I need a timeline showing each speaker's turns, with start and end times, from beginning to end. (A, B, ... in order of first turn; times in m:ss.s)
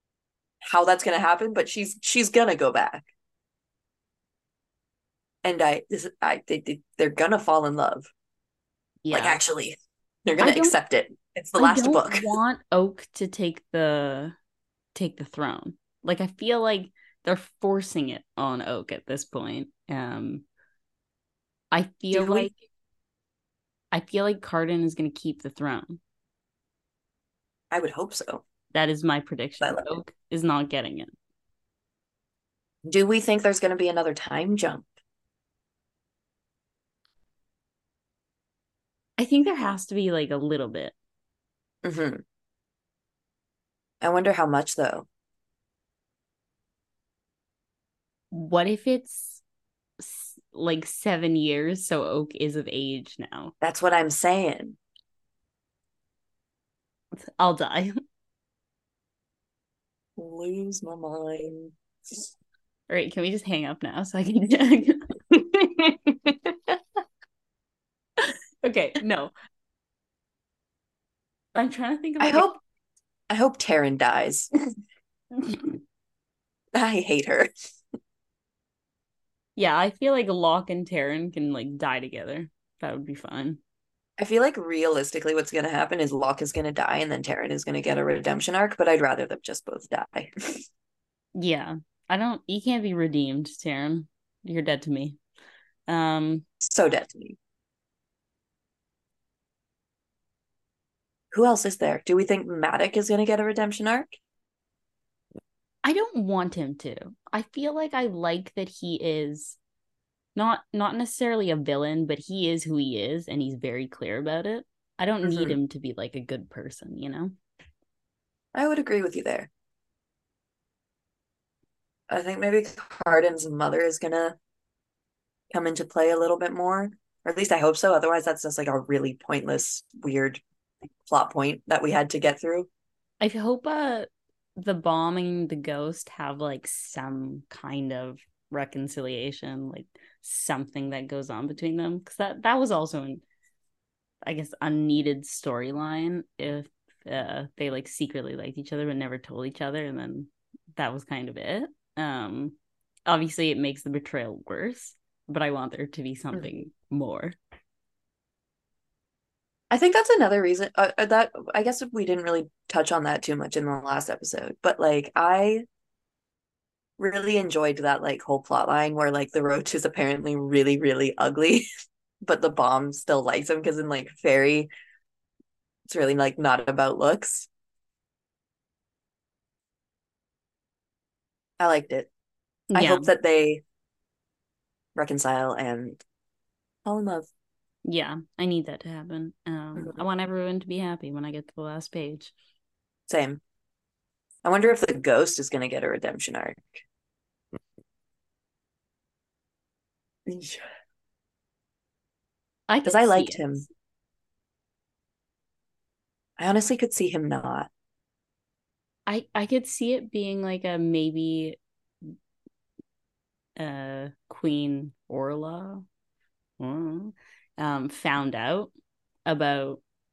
0:00.7-0:03.1 A
0:05.4-0:08.1 A
0:09.0-0:09.4 B
0:09.1-0:09.8 A
0:10.3-0:12.3 A
0:10.4-0:10.8 B
0:11.6-0:14.3 B
0:14.9-0:20.4 B
0:21.7-0:22.6 B
0:22.1-0:22.5 A
0:23.9-0:26.0 B
0:27.7-0:28.4 A
0:28.7-0:31.1 B
0:29.6-0:30.0 A
0:32.9-0:34.9 A
0:39.2-0:40.9 B
0:41.8-0:42.2 A
0:44.0-0:45.0 A
0:48.3-0:49.4 B
0:50.0-0:53.5 B
0:53.6-0:54.8 A
0:57.2-0:57.9 B
1:00.2-1:01.7 A
1:02.9-1:05.0 B
1:08.6-1:09.3 B
1:11.5-1:12.6 B
1:12.2-1:12.5 A
1:13.3-1:14.5 A
1:15.4-1:15.7 B
1:16.7-1:17.5 A
1:19.6-1:23.6 B
1:24.2-1:30.3 A
1:31.4-1:35.2 B
1:35.9-1:36.4 B
1:36.6-1:37.4 A
1:41.3-1:44.2 A
1:45.8-1:49.6 B
1:50.3-1:57.3 B
1:55.2-1:55.6 A
1:58.5-1:59.5 A
2:02.1-2:04.3 A
2:05.5-2:10.4 A
2:11.0-2:12.7 A
2:13.2-2:23.2 B
2:24.2-2:37.4 B
2:39.7-2:45.6 A
2:47.0-2:51.6 A
2:52.2-2:54.7 A
2:55.9-2:57.5 A
3:01.6-3:02.1 A
3:02.7-3:03.1 B
3:02.7-3:03.6 A
3:05.0-3:06.0 A
3:06.8-3:07.3 A
3:07.8-3:12.3 B
3:13.1-3:13.4 A
3:14.4-3:16.8 A
3:20.3-3:20.6 A
3:22.7-3:23.6 B
3:22.8-3:23.6 A
3:26.4-3:27.7 A
3:29.1-3:31.6 B
3:33.6-3:35.8 B
3:36.6-3:38.7 B
3:39.2-3:39.8 B